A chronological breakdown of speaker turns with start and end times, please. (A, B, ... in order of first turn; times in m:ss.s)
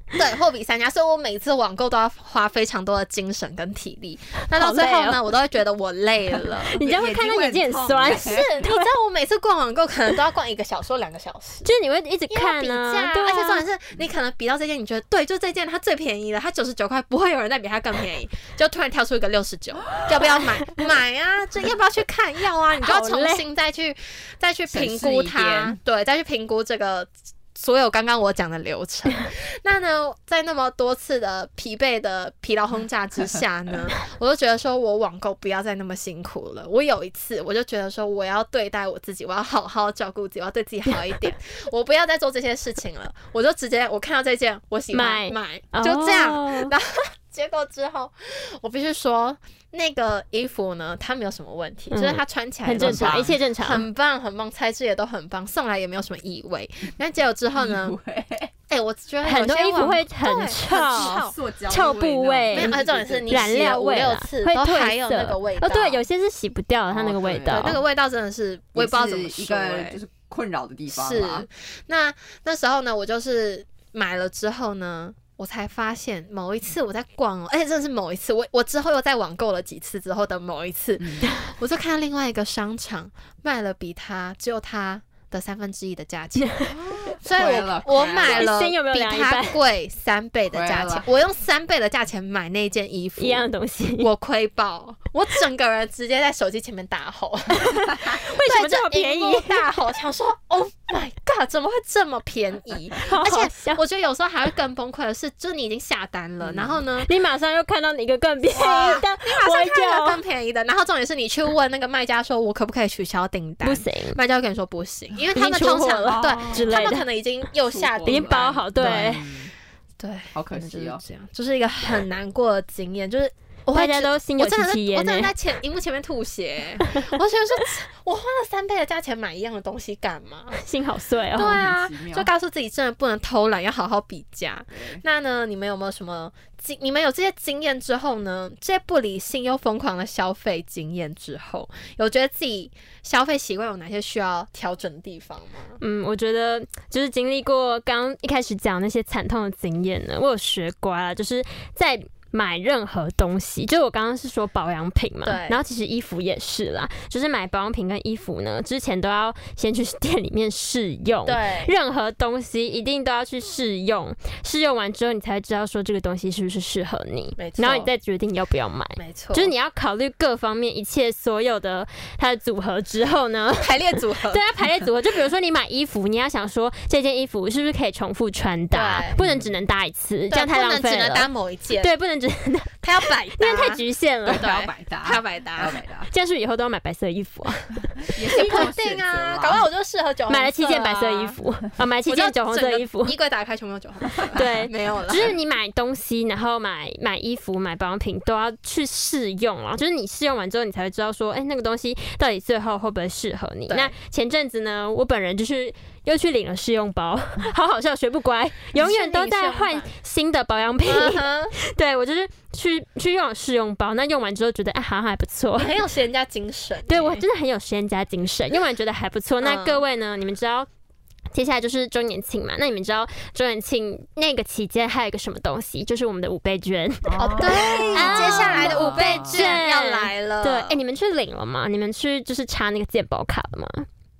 0:00.2-0:06.8 A
0:04.6-0:05.2 B
0:06.3-0:08.5 C
0:06.8-0:08.9 B
0:08.0-0:11.7 A
0:11.6-0:13.6 B
0:12.3-0:58.0 A
0:22.8-0:23.4 B
0:24.7-0:25.8 C
0:44.9-0:46.7 B
0:51.9-0:53.8 B
0:52.8-0:53.4 C
0:57.5-0:58.5 C
0:58.7-1:01.3 A
0:59.2-1:01.2 B
1:00.9-1:03.5 C
1:01.7-1:02.8 B
1:02.5-1:06.0 A
1:03.3-1:07.8 B
1:06.9-1:07.8 C
1:07.5-1:10.0 A
1:08.8-1:11.5 C
1:10.9-1:26.6 A
1:21.0-1:21.3 C
1:26.6-1:28.5 C
1:27.2-1:33.5 A
1:28.2-1:29.6 B
1:30.5-1:31.1 C
1:33.2-1:34.1 B
1:34.0-1:47.1 A
1:37.6-1:39.6 B
1:43.0-1:43.8 B
1:46.4-1:46.8 C
1:47.0-1:50.2 B
1:48.5-1:59.2 A
1:53.6-1:54.2 B
1:55.4-1:57.1 B
1:56.1-1:57.0 C
1:57.7-1:59.5 C
1:58.1-1:59.2 B
2:00.0-2:10.6 A
2:00.3-2:01.0 C
2:03.7-2:05.3 B
2:10.5-2:11.7 B
2:11.4-2:25.8 A
2:11.4-2:12.3 C
2:14.7-2:15.0 C
2:25.8-3:01.3 B
2:35.2-2:35.6 A
2:41.3-2:41.7 A
2:47.4-2:47.9 A
2:49.0-2:49.5 A
2:53.6-2:54.4 A
2:58.7-2:59.2 A
2:59.2-2:59.5 C
3:00.3-3:01.9 A
3:01.8-3:02.8 B
3:02.8-3:03.8 A
3:03.4-3:04.4 B
3:04.3-3:06.1 C
3:04.4-3:05.8 A
3:06.1-3:07.8 B
3:08.1-3:09.7 C
3:08.3-3:11.4 A
3:10.3-3:13.1 B
3:12.1-3:15.3 A
3:14.2-3:14.5 C
3:14.4-3:35.8 B
3:28.8-3:29.9 A
3:30.8-3:31.5 A
3:35.6-3:37.2 A
3:36.9-3:40.7 B
3:39.4-3:39.8 A
3:41.3-3:53.9 B
3:47.0-3:49.6 C
3:47.2-3:50.8 A